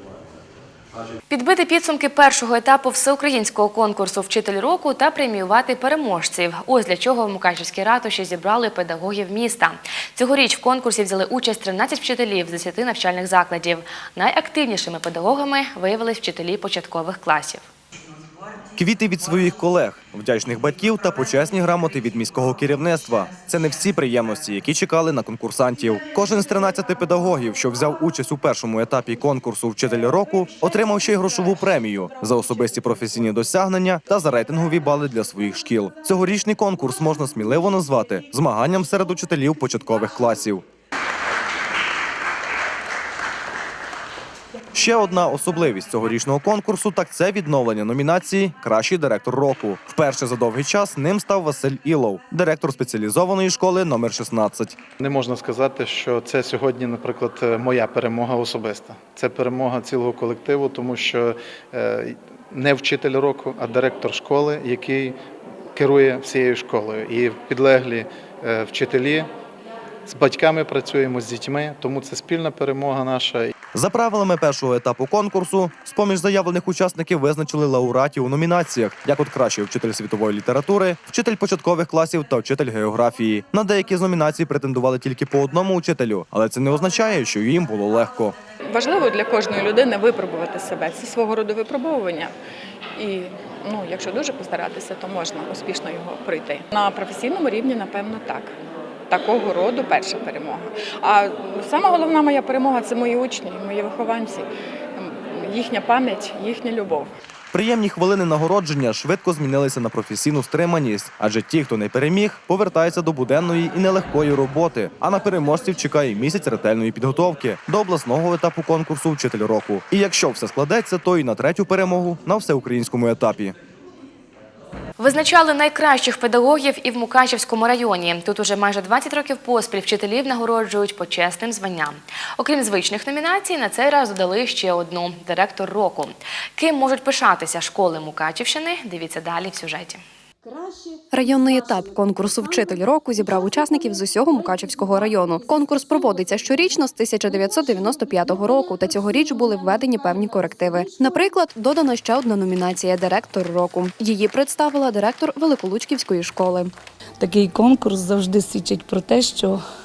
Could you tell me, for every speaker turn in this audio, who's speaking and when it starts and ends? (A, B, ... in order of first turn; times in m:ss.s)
0:01.3-0:17.6 A
0:18.8-0:40.6 B
0:44.7-0:54.8 B
0:55.0-1:05.2 C
1:05.8-1:09.3 C
1:10.1-1:13.5 C
1:13.7-1:28.3 B
1:28.7-1:32.3 D
1:33.0-1:38.5 D
1:39.1-1:47.1 D
1:47.5-2:03.5 B
2:05.0-2:20.0 A
2:21.1-2:36.7 E
2:37.2-2:39.6 F